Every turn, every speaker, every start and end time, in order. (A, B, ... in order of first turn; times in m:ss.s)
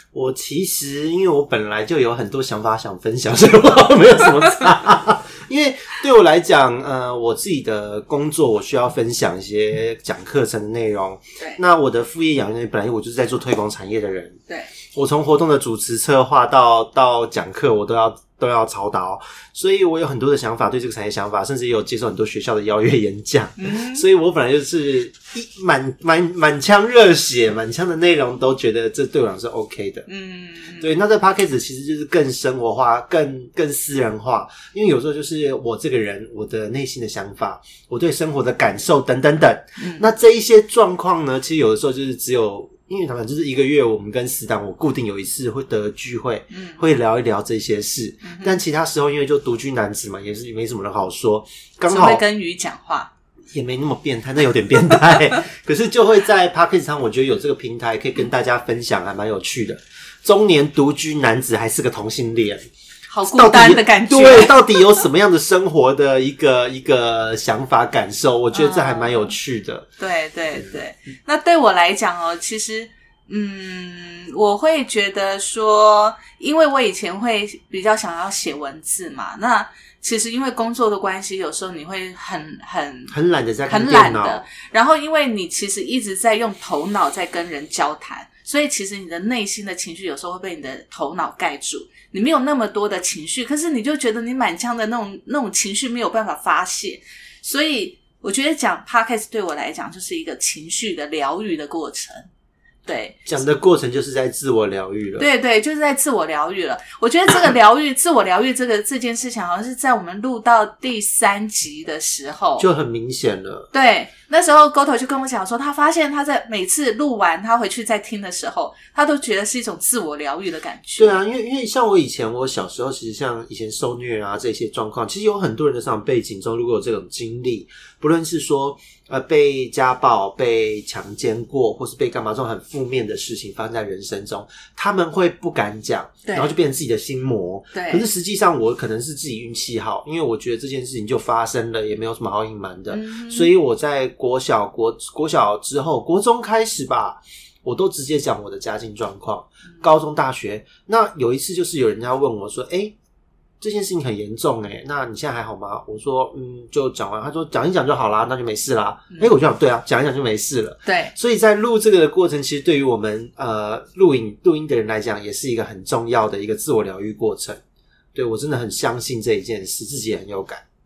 0:00.1-0:14.4 A
0:14.9-0:30.1 A
0:23.6-0:24.0 B
0:30.1-0:30.9 B
0:30.8-0:52.2 A
0:39.8-0:40.1 B
0:46.5-0:46.8 B
0:48.2-0:48.6 B
0:51.9-0:53.1 B
0:53.5-1:02.7 A
1:03.1-1:04.8 B
1:03.3-1:09.9 A
1:08.5-1:09.3 B
1:10.0-1:23.1 B
1:23.1-1:24.4 A
1:23.7-1:42.3 B
1:42.9-1:43.3 B
1:43.3-1:45.3 A
1:45.2-1:52.7 B
1:52.6-1:53.7 A
1:53.7-2:01.2 B
2:01.0-2:32.9 A
2:16.3-2:16.5 B
2:17.7-2:18.1 B
2:22.9-2:23.5 B
2:33.6-2:47.6 A
2:40.9-2:41.1 B
2:48.2-2:50.6 A